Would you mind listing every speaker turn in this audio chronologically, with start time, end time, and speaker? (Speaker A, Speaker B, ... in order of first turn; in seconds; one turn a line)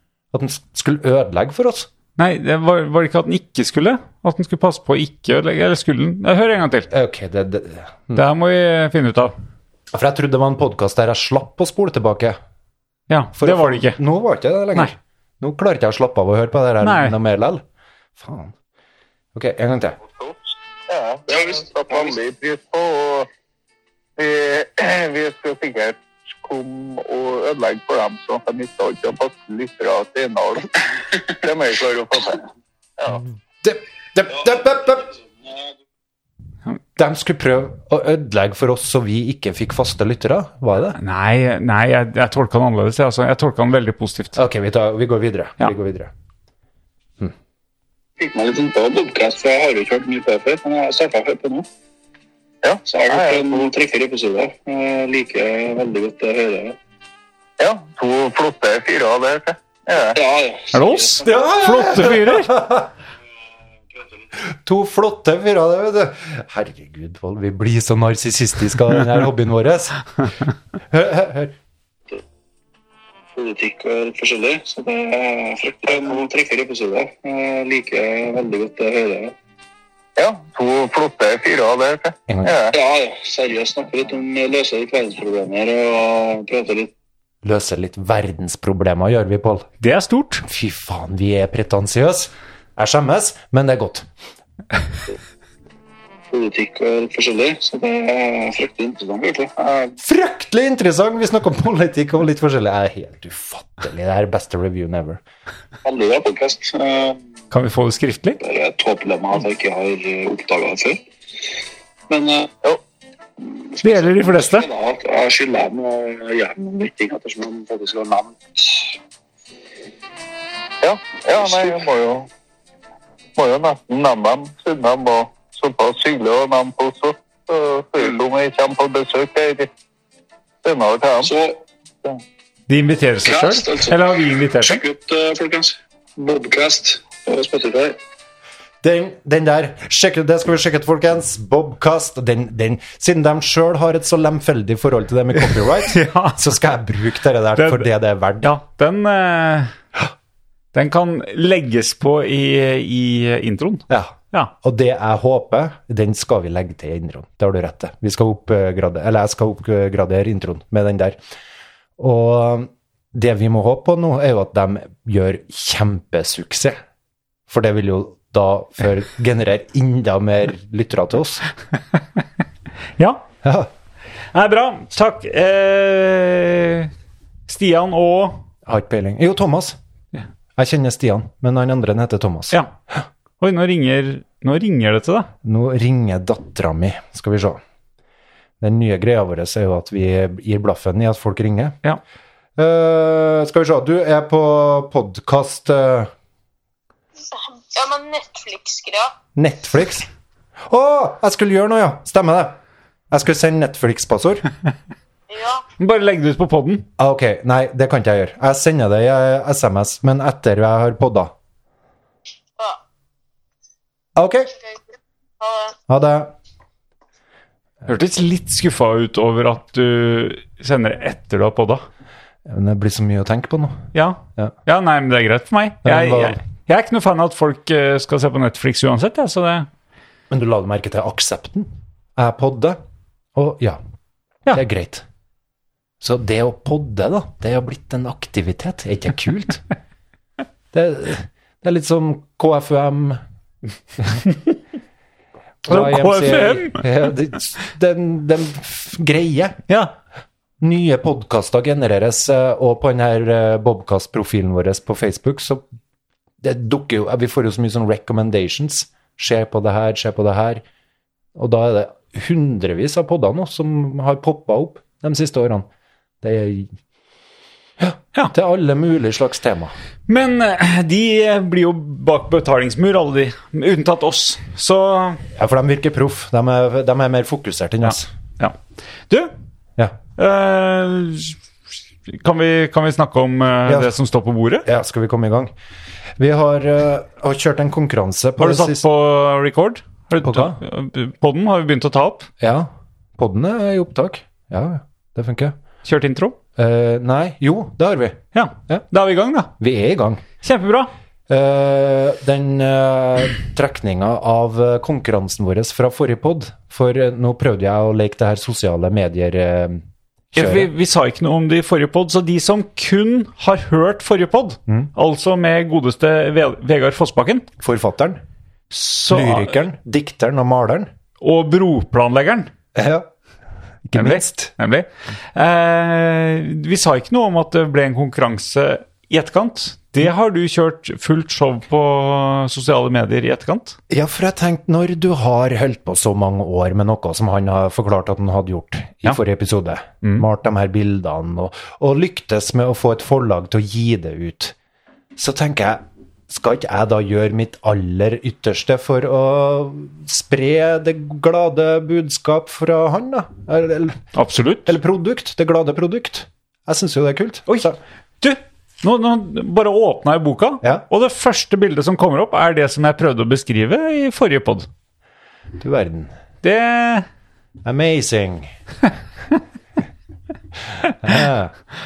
Speaker A: 0.3-1.9
Speaker B: 2.2-6.9
Speaker A: 6.9-8.2
Speaker B: 8.1-9.3
Speaker A: 9.9-12.4
Speaker B: 13.1-14.0
Speaker A: 13.4-17.6
Speaker B: 16.8-17.2
Speaker A: 18.2-18.5
Speaker A: 19.3-20.0
Speaker C: 20.9-23.3
Speaker D: 21.3-22.2
Speaker C: 24.2-30.7
Speaker C: 31.3-32.4
Speaker A: 33.1-35.1
Speaker A: 37.0-41.0
Speaker B: 40.9-44.4
Speaker A: 44.4-46.1
Speaker D: 48.2-51.7
Speaker C: 52.6-53.7
Speaker D: 52.9-56.8
Speaker C: 57.6-60.2
Speaker D: 60.1-61.3
Speaker B: 60.7-62.5
Speaker A: 61.2-62.9
Speaker A: 64.5-70.1
Speaker A: 70.9-71.5
Speaker D: 73.3-79.3
Speaker C: 75.9-76.2
Speaker C: 80.2-82.8
Speaker A: 82.3-82.5
Speaker D: 82.7-86.9
Speaker A: 87.4-89.7
Speaker B: 89.8-90.4
Speaker A: 90.4-94.1
Speaker D: 96.3-99.9
Speaker A: 100.0-105.2
Speaker D: 105.8-107.2
Speaker B: 107.5-108.4
Speaker D: 108.4-111.0
Speaker D: 112.1-112.5
Speaker D: 113.4-119.0
Speaker B: 113.8-114.7
Speaker C: 120.8-122.3
Speaker D: 121.4-121.8
Speaker C: 123.4-129.7
Speaker C: 130.6-131.3
Speaker D: 131.2-131.6
Speaker B: 132.7-134.8
Speaker D: 133.2-134.0
Speaker D: 134.6-138.0
Speaker A: 138.8-148.5
Speaker B: 145.3-146.5
Speaker B: 147.6-147.9
Speaker B: 148.4-149.7
Speaker B: 150.7-154.5
Speaker A: 153.9-161.2
Speaker A: 162.0-166.8
Speaker A: 167.5-171.5
Speaker B: 173.0-173.2
Speaker A: 173.4-173.7
Speaker B: 174.3-176.9
Speaker B: 177.5-178.4
Speaker A: 178.7-179.8
Speaker A: 180.6-183.0
Speaker B: 183.4-185.3
Speaker A: 185.4-187.6
Speaker A: 188.6-191.8
Speaker A: 192.6-196.1
Speaker E: 197.2-199.1
Speaker A: 199.3-200.1
Speaker A: 200.7-202.6
Speaker A: 203.1-204.5
Speaker E: 205.3-205.6
Speaker B: 205.8-206.9
Speaker A: 207.0-211.3
Speaker A: 214.2-214.5
Speaker E: 215.4-215.8
Speaker A: 215.9-216.3
Speaker B: 217.8-221.8
Speaker A: 222.4-223.8
Speaker B: 223.9-229.7
Speaker A: 225.8-226.4
Speaker A: 230.3-232.8
Speaker A: 233.3-233.8
Speaker A: 234.5-235.0
Speaker A: 236.0-239.6
Speaker A: 240.7-243.2
Speaker A: 245.6-249.6
Speaker B: 245.7-246.9
Speaker B: 249.7-249.9
Speaker A: 250.6-255.6
Speaker A: 256.4-260.6
Speaker A: 261.3-265.6
Speaker A: 266.2-266.7
Speaker A: 267.8-269.7
Speaker B: 270.1-275.2
Speaker A: 275.3-278.1
Speaker B: 277.8-278.6
Speaker B: 280.2-281.4
Speaker B: 282.1-284.6
Speaker A: 283.7-283.9
Speaker A: 284.6-285.5
Speaker A: 286.2-288.8
Speaker B: 288.4-292.3
Speaker A: 290.2-290.6
Speaker A: 292.4-295.5
Speaker B: 295.8-296.4
Speaker A: 296.6-298.8
Speaker B: 298.3-299.5
Speaker A: 299.6-300.2
Speaker B: 300.4-300.9
Speaker A: 301.3-310.7
Speaker B: 310.3-317.5
Speaker A: 317.6-318.2
Speaker B: 318.7-319.6
Speaker A: 319.1-320.9
Speaker B: 321.2-322.5
Speaker A: 322.8-323.1
Speaker A: 323.9-324.5
Speaker B: 323.9-333.8
Speaker A: 333.9-344.5
Speaker A: 345.2-354.0
Speaker B: 354.1-354.7
Speaker A: 354.6-357.8
Speaker B: 358.2-364.7
Speaker A: 365.6-366.1
Speaker B: 366.4-367.1
Speaker A: 367.6-368.5
Speaker A: 370.8-371.5